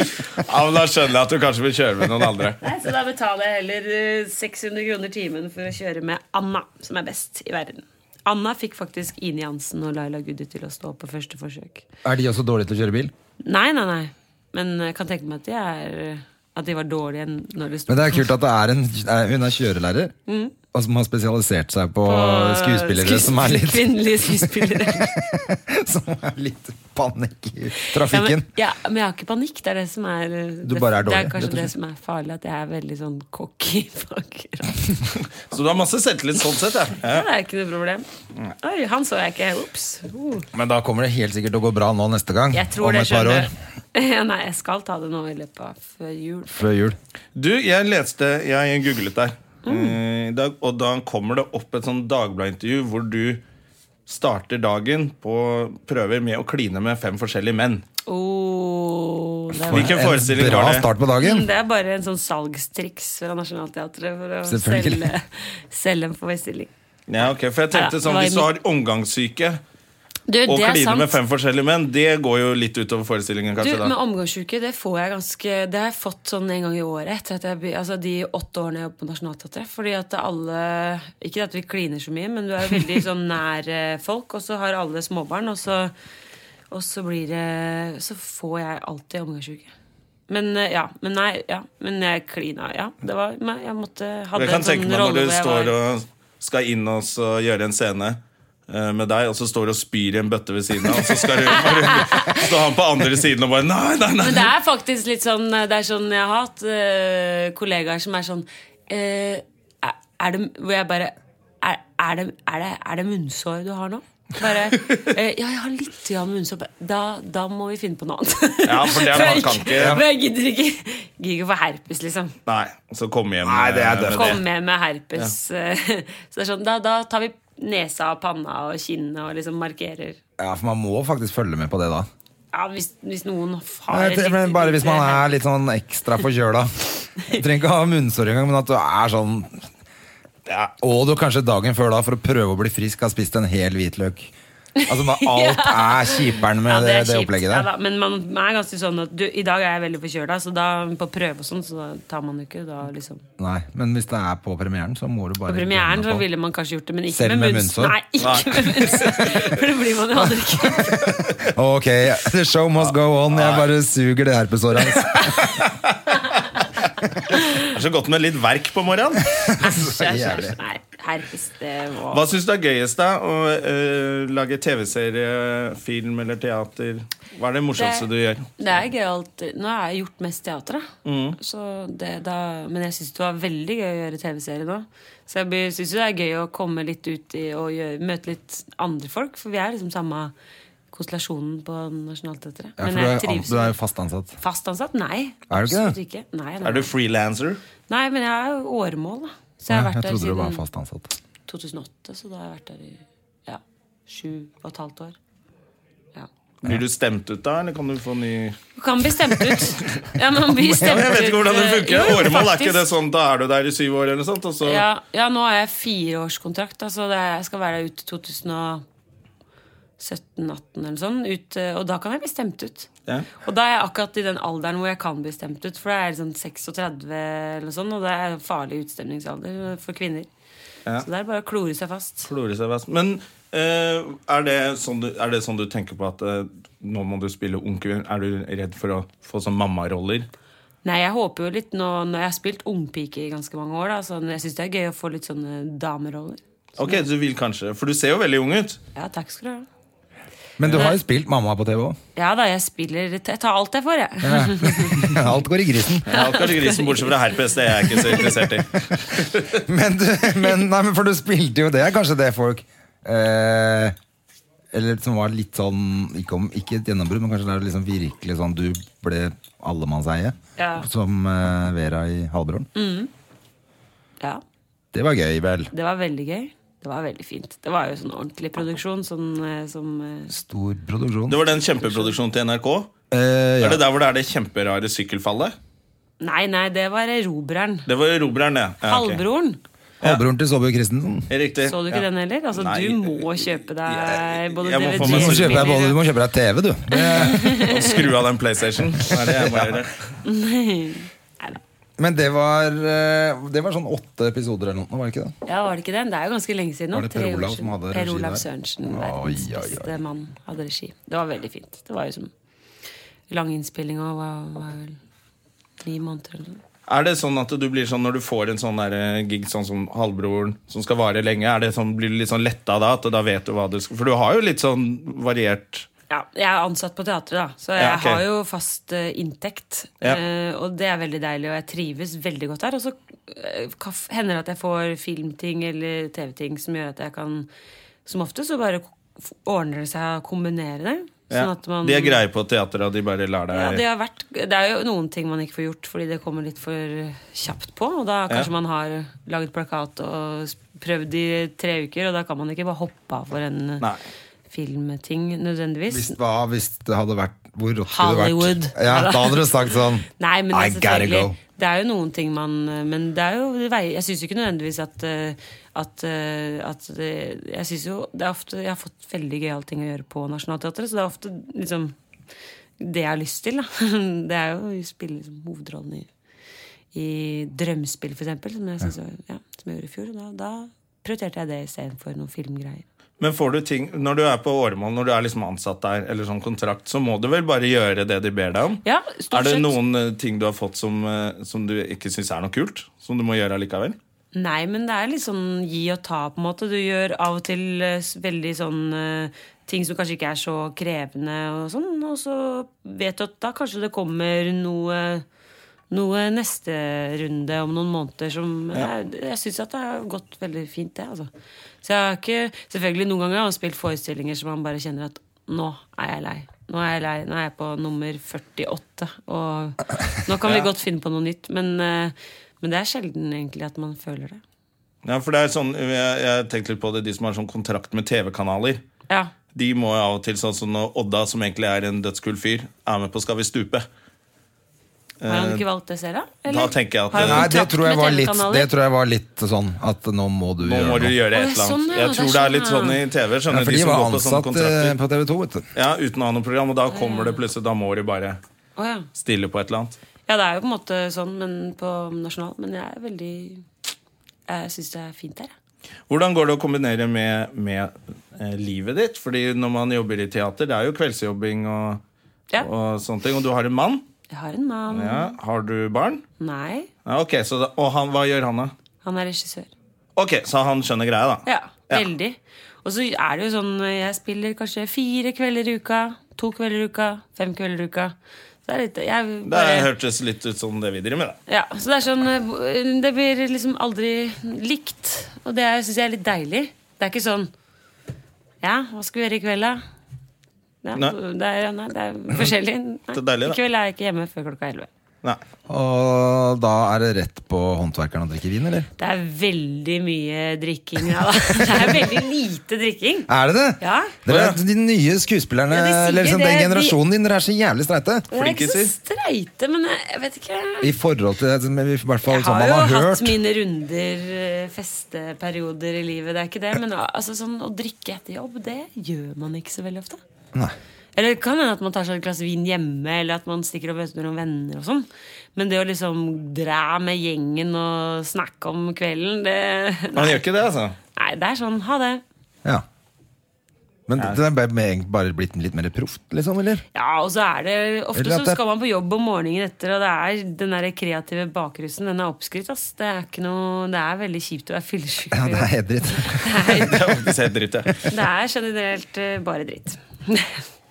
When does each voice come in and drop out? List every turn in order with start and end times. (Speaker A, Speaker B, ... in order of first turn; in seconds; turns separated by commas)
Speaker A: 0.3-2.6, Speaker B: 2.6-11.8, Speaker C: 12.0-13.1, Speaker B: 13.4-18.3, Speaker C: 17.9-20.1, Speaker B: 20.3-20.6, Speaker C: 20.7-28.5, Speaker B: 22.1-25.1, Speaker B: 27.8-34.9, Speaker C: 30.6-31.7, Speaker A: 35.4-37.2, Speaker B: 37.0-38.0, Speaker B: 38.6-40.5, Speaker C: 40.5-43.5, Speaker B: 42.5-46.5, Speaker C: 46.5-47.0, Speaker A: 47.4-53.4, Speaker B: 49.6-50.0, Speaker A: 54.1-57.8, Speaker B: 58.0-60.0, Speaker C: 59.6-61.5, Speaker A: 59.7-60.9, Speaker B: 61.2-66.7, Speaker C: 64.5-65.1, Speaker A: 67.1-69.6, Speaker B: 67.7-68.5, Speaker B: 70.3-71.2, Speaker A: 70.5-73.9, Speaker B: 73.6-85.9, Speaker B: 86.7-89.7, Speaker B: 90.3-95.7, Speaker A: 94.3-104.5, Speaker B: 101.4-102.6, Speaker B: 104.2-122.3, Speaker A: 118.6-120.0, Speaker C: 119.8-120.0, Speaker A: 122.5-124.4, Speaker C: 123.4-124.4, Speaker B: 124.0-130.2, Speaker C: 130.4-132.1, Speaker B: 132.5-135.3, Speaker C: 133.9-139.6, Speaker C: 140.8-144.3, Speaker B: 144.8-153.2, Speaker C: 144.9-147.7, Speaker C: 153.4-156.2, Speaker B: 155.5-161.1, Speaker C: 157.1-158.0, Speaker A: 158.2-159.6, Speaker C: 160.7-165.5, Speaker A: 162.8-163.7, Speaker A: 165.6-166.5, Speaker A: 167.3-169.3, Speaker C: 169.3-170.6, Speaker B: 169.6-172.2, Speaker A: 172.1-178.6, Speaker B: 177.8-178.1, Speaker B: 178.6-180.9, Speaker A: 181.0-181.4, Speaker B: 181.4-190.3, Speaker B: 190.9-193.8, Speaker C: 192.8-194.4, Speaker B: 194.4-196.9, Speaker C: 195.5-195.9, Speaker A: 196.6-197.6, Speaker B: 197.9-200.6, Speaker C: 199.7-201.1, Speaker B: 201.5-205.2, Speaker A: 206.6-208.6, Speaker B: 208.8-212.9, Speaker A: 210.8-214.8, Speaker B: 214.6-218.8, Speaker B: 220.0-230.3, Speaker B: 231.0-232.3, Speaker A: 232.2-240.3, Speaker B: 240.8-247.1, Speaker A: 246.8-248.8, Speaker B: 248.9-249.7, Speaker C: 250.6-252.0, Speaker A: 250.6-250.9, Speaker B: 250.7-251.0, Speaker B: 252.1-255.3, Speaker C: 254.2-256.1, Speaker A: 256.1-259.6, Speaker B: 256.1-257.2, Speaker B: 257.9-258.3, Speaker C: 259.4-263.9, Speaker C: 264.7-272.7, Speaker B: 270.6-270.9, Speaker B: 272.7-273.1, Speaker C: 274.9-275.7, Speaker B: 275.7-280.3, Speaker C: 280.3-281.4, Speaker A: 281.3-282.9, Speaker C: 283.1-283.8, Speaker A: 283.6-285.5, Speaker B: 286.2-287.9, Speaker A: 287.9-289.2, Speaker B: 288.8-289.6, Speaker C: 290.0-291.3, Speaker A: 291.3-295.7, Speaker B: 291.6-296.0, Speaker C: 295.0-297.6, Speaker B: 296.9-298.1, Speaker A: 297.4-300.0, Speaker C: 299.1-299.8, Speaker B: 300.2-301.6, Speaker C: 302.0-305.3, Speaker B: 305.4-312.3, Speaker C: 306.9-309.9, Speaker B: 313.3-315.0, Speaker B: 315.8-316.6, Speaker A: 316.9-325.9, Speaker B: 326.1-337.5, Speaker A: 327.8-328.2, Speaker B: 338.1-342.2, Speaker A: 341.3-343.8, Speaker B: 343.5-353.9, Speaker B: 354.5-356.1, Speaker C: 355.9-361.4, Speaker B: 357.9-371.9, Speaker B: 372.8-376.1, Speaker B: 376.9-382.8, Speaker A: 383.2-394.0, Speaker B: 388.8-389.8, Speaker B: 394.3-405.2, Speaker B: 405.9-411.3, Speaker B: 411.8-424.4, Speaker A: 425.0-428.8, Speaker A: 429.5-433.9, Speaker A: 435.2-435.6, Speaker B: 435.2-438.7, Speaker A: 436.5-437.5, Speaker C: 437.1-441.1, Speaker A: 440.6-444.9, Speaker B: 441.3-443.0, Speaker C: 443.5-445.7, Speaker A: 445.7-448.4, Speaker B: 446.9-447.4, Speaker B: 448.8-449.1, Speaker A: 449.1-450.0, Speaker B: 450.3-453.6, Speaker B: 454.5-455.5, Speaker A: 456.1-462.0, Speaker A: 462.6-464.0, Speaker B: 464.3-465.4, Speaker A: 464.9-466.2, Speaker B: 466.4-466.9, Speaker A: 467.1-468.7, Speaker B: 469.0-469.7, Speaker A: 470.1-472.1, Speaker B: 471.4-478.1, Speaker B: 478.6-479.9, Speaker A: 479.4-481.4, Speaker B: 481.5-487.5, Speaker B: 488.6-489.8, Speaker B: 490.8-494.9, Speaker A: 493.1-493.6, Speaker C: 495.7-498.9, Speaker B: 499.0-504.1, Speaker C: 503.3-508.3, Speaker A: 504.3-504.6, Speaker B: 505.7-507.0, Speaker B: 508.3-510.9, Speaker A: 508.3-508.9, Speaker C: 510.8-513.4, Speaker B: 512.3-520.2, Speaker B: 521.1-530.4, Speaker A: 530.1-531.0, Speaker B: 531.1-532.2, Speaker C: 534.1-536.8, Speaker B: 536.9-547.1, Speaker C: 538.1-538.6, Speaker C: 545.3-546.7, Speaker A: 546.7-548.1, Speaker B: 548.0-550.6